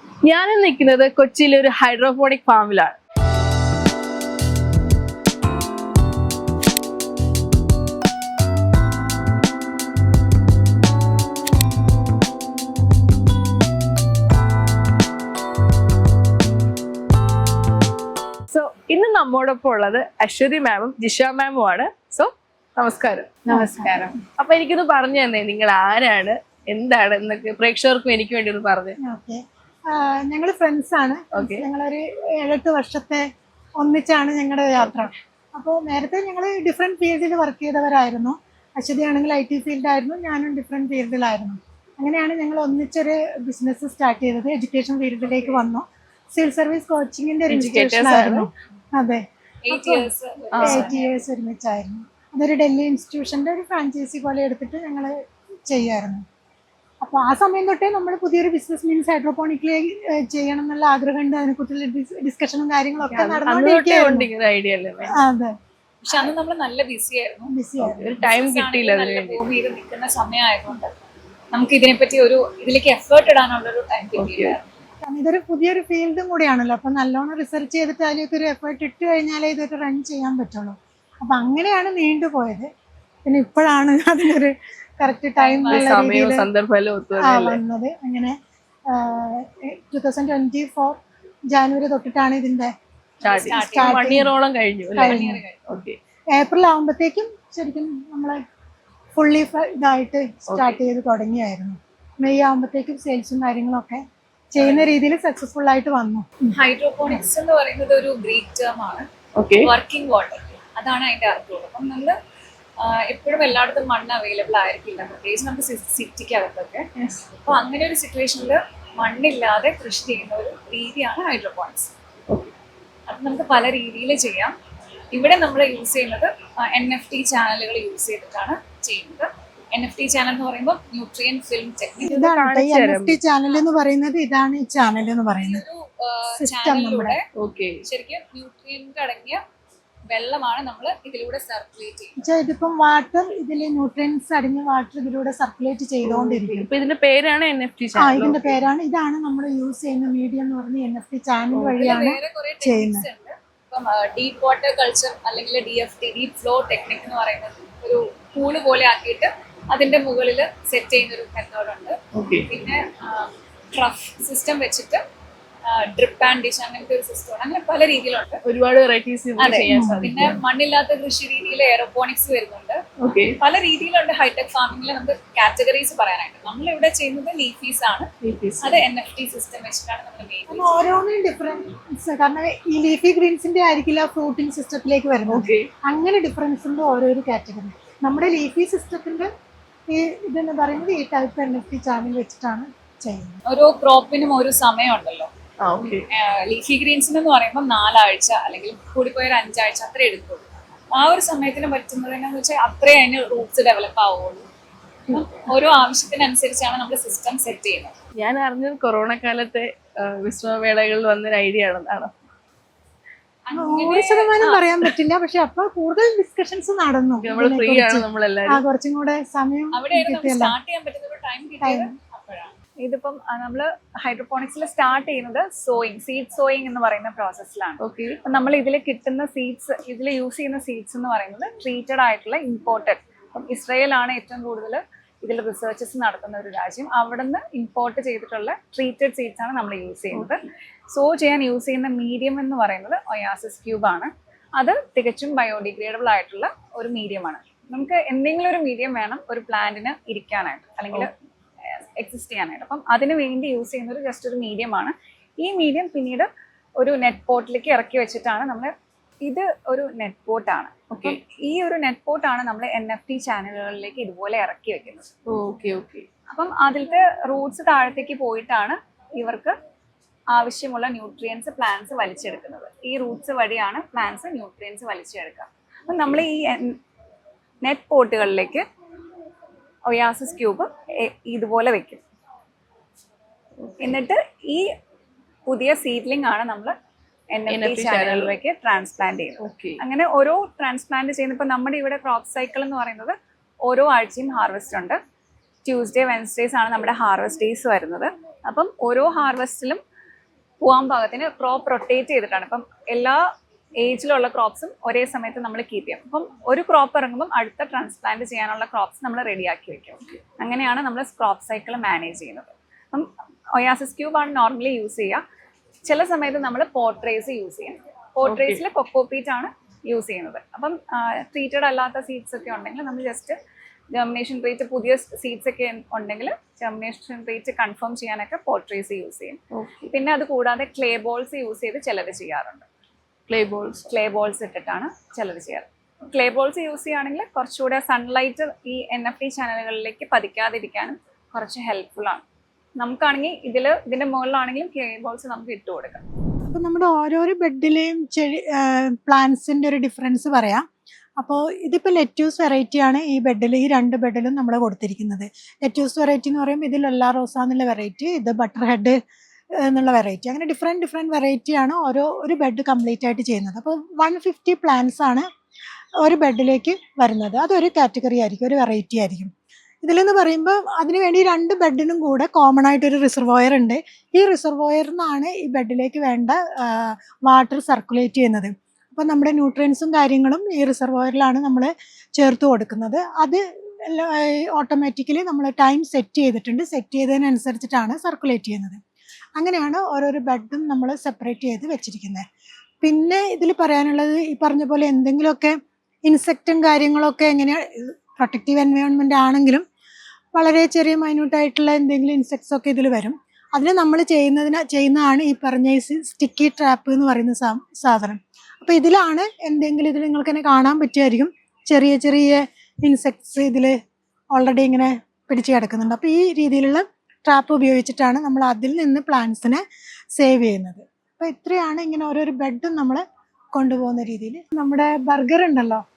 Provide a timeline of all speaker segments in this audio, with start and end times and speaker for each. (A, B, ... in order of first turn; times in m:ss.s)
0:00.2-0:03.0 A
0:18.5-0:23.3 A
0:23.4-0:24.2 B
0:23.5-0:23.9 C
0:24.4-0:29.0 A
0:29.0-0:33.2 C
0:31.3-0:31.6 A
0:33.8-0:50.1 C
0:47.5-0:48.5 A
0:49.6-0:51.1 B
0:50.6-0:50.9 A
0:50.6-0:55.1 C
0:55.7-0:56.2 C
0:57.0-1:04.3 C
1:03.1-1:05.2 A
1:05.1-1:05.5 C
1:06.0-1:07.5 B
1:07.5-1:08.2 C
1:07.8-1:09.4 A
1:08.2-1:10.9 B
1:11.5-1:14.6 B
1:14.2-1:14.6 A
1:15.0-1:22.7 C
1:23.2-1:26.5 C
1:25.4-1:26.0 B
1:25.7-1:27.6 A
1:27.2-1:28.3 C
1:28.9-1:31.0 C
1:31.5-1:32.7 C
1:33.2-1:36.0 A
1:33.2-1:34.2 B
1:33.5-1:34.3 C
1:35.0-1:35.4 C
1:35.0-1:35.6 B
1:36.3-1:38.4 C
1:39.1-1:46.5 C
1:40.5-1:40.8 A
1:46.5-1:49.0 B
1:49.4-1:49.7 A
1:49.6-1:52.2 B
1:52.8-1:56.8 B
1:57.4-2:01.9 B
2:03.1-2:04.5 B
2:05.1-2:12.2 B
2:12.0-2:13.2 A
2:12.1-2:15.6 C
2:15.4-2:17.2 B
2:16.4-2:17.2 C
2:17.4-2:17.8 A
2:17.8-2:19.4 B
2:20.1-2:22.2 B
2:22.2-2:26.7 C
2:26.0-2:28.6 A
2:28.0-2:33.0 C
2:31.7-2:42.0 B
2:42.1-2:42.5 A
2:42.5-2:45.0 B
2:45.7-2:48.4 B
2:48.4-2:50.3 A
2:49.4-2:52.8 B
2:49.7-2:50.1 C
2:53.0-2:53.4 A
2:53.4-2:58.1 B
2:58.2-2:58.8 A
2:58.6-3:00.8 B
3:00.5-3:09.3 C
3:05.3-3:05.7 A
3:09.9-3:13.4 C
3:13.5-3:15.3 B
3:15.6-3:16.1 A
3:16.1-3:24.4 B
3:25.1-3:28.0 B
3:28.2-3:32.1 A
3:33.5-3:34.9 B
3:33.6-3:40.5 C
3:37.2-3:38.6 A
3:39.7-4:00.4 B
3:41.6-3:41.9 C
3:47.8-3:48.2 A
4:00.9-4:11.1 B
4:12.0-4:16.3 B
4:16.8-4:18.7 B
4:19.2-4:25.1 B
4:20.9-4:21.2 A
4:25.3-4:26.0 A
4:26.3-4:29.5 B
4:30.3-4:36.8 B
4:37.6-4:38.6 B
4:39.8-4:42.0 B
4:43.6-4:43.9 A
4:43.8-4:44.6 B
4:45.4-4:46.7 B
4:47.3-4:53.1 B
4:47.5-4:48.3 A
4:49.4-4:49.8 A
4:53.6-4:55.0 B
4:55.6-4:59.8 B
5:00.6-5:03.2 B
5:03.8-5:15.2 B
5:15.8-5:23.4 B
5:18.2-5:18.6 A
5:23.9-5:29.4 B
5:29.5-5:29.9 A
5:29.9-5:32.6 B
5:33.3-5:33.9 A
5:33.9-5:42.2 B
5:42.8-5:46.0 B
5:46.5-5:50.6 C
5:51.2-5:59.0 C
5:59.6-6:05.3 C
6:06.0-6:09.3 C
6:09.8-6:28.8 C
6:29.4-6:32.2 C
6:32.8-6:39.6 C
6:40.3-6:53.7 C
6:54.3-6:59.6 C
7:00.2-7:03.0 C
7:03.5-7:05.8 C